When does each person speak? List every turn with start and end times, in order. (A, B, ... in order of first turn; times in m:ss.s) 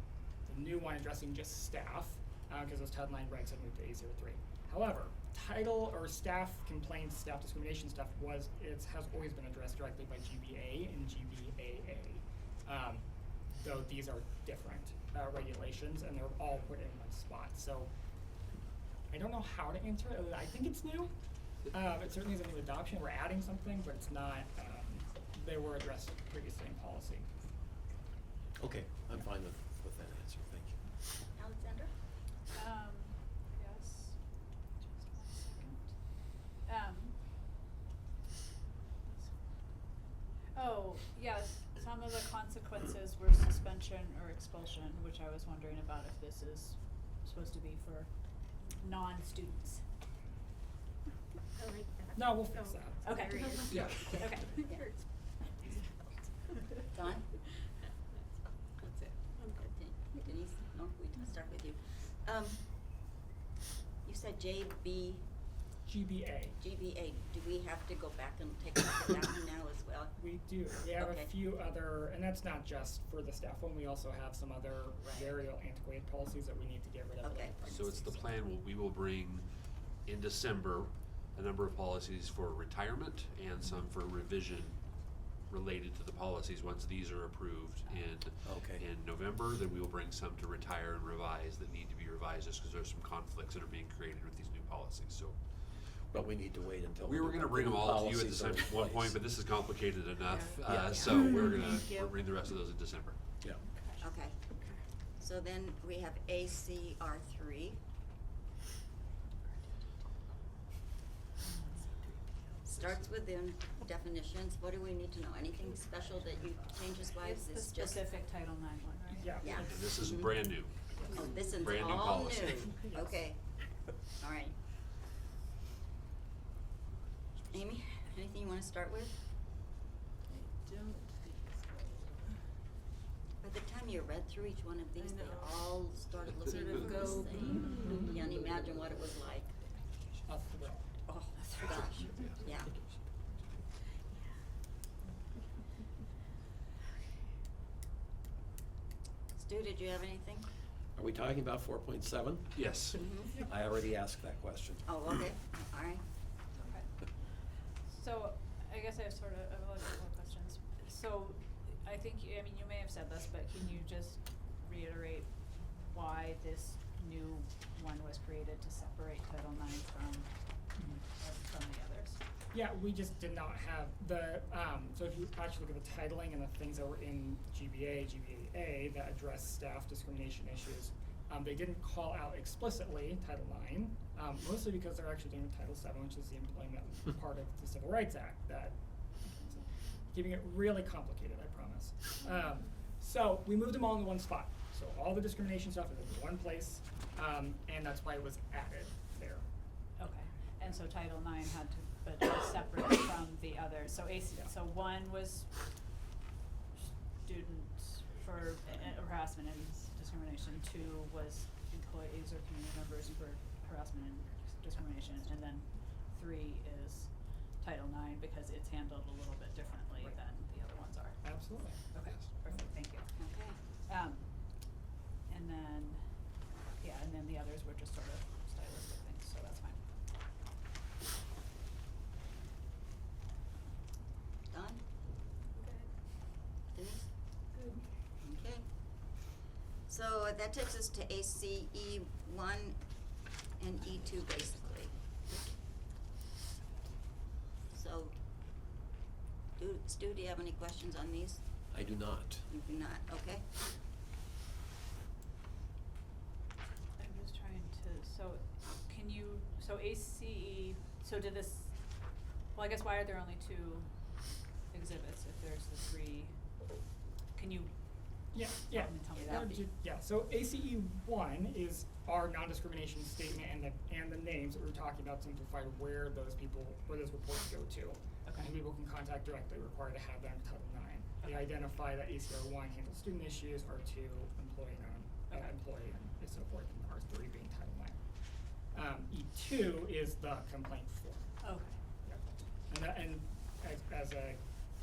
0:00.4-0:17.9 A
0:19.1-0:21.1 A
0:21.7-0:27.3 A
0:28.6-0:30.9 B
0:31.3-0:31.9 C
0:32.5-0:37.4 D
0:40.5-0:49.8 D
0:51.6-0:51.9 E
0:52.1-0:53.2 A
0:52.4-0:54.1 E
0:53.0-0:54.7 D
0:53.7-0:54.1 F
0:53.8-0:54.3 A
0:56.9-0:57.3 C
0:59.7-1:03.0 C
1:04.0-1:05.4 C
1:05.8-1:06.6 A
1:06.6-1:10.2 C
1:10.2-1:18.4 A
1:10.9-1:11.3 C
1:15.0-1:15.4 C
1:17.2-1:17.6 C
1:17.6-1:36.0 F
1:28.4-1:28.8 B
1:36.1-1:39.2 B
1:37.0-1:43.3 F
1:41.0-1:41.7 E
1:41.3-1:42.1 D
1:43.6-1:44.0 D
1:44.0-1:44.5 C
1:45.2-1:47.8 C
1:51.5-1:51.8 D
1:52.6-1:58.1 C
1:57.2-1:59.7 D
1:59.2-1:59.7 A
1:59.4-2:00.4 C
1:59.6-2:02.8 F
2:00.9-2:01.2 A
2:01.1-2:04.6 C
2:07.5-2:09.3 C
2:13.4-2:19.5 C
2:16.5-2:18.0 E
2:17.0-2:17.8 D
2:20.2-2:20.8 A
2:21.0-2:22.7 C
2:29.3-2:30.5 C
2:30.9-2:34.9 B
2:32.5-2:33.0 F
2:32.9-2:33.4 C
2:34.8-2:36.0 C
2:36.6-2:36.9 D
2:37.9-2:52.2 D
2:50.8-2:51.0 A
2:52.5-3:19.5 A
3:20.0-3:25.7 D
3:26.8-3:46.0 D
3:41.2-3:42.7 A
3:43.2-3:43.6 C
3:46.8-3:49.8 D
3:54.5-3:54.9 C
3:56.7-3:57.5 C
3:58.2-3:59.3 C
3:59.8-4:05.0 C
4:07.7-4:08.2 C
4:09.6-4:11.9 C
4:11.7-4:12.5 B
4:12.5-4:13.6 C
4:17.0-4:26.3 D
4:27.3-4:29.7 D
4:28.3-4:48.0 A
4:38.2-4:38.5 D
4:48.7-4:51.2 A
4:51.4-4:51.7 D
4:52.0-4:54.4 A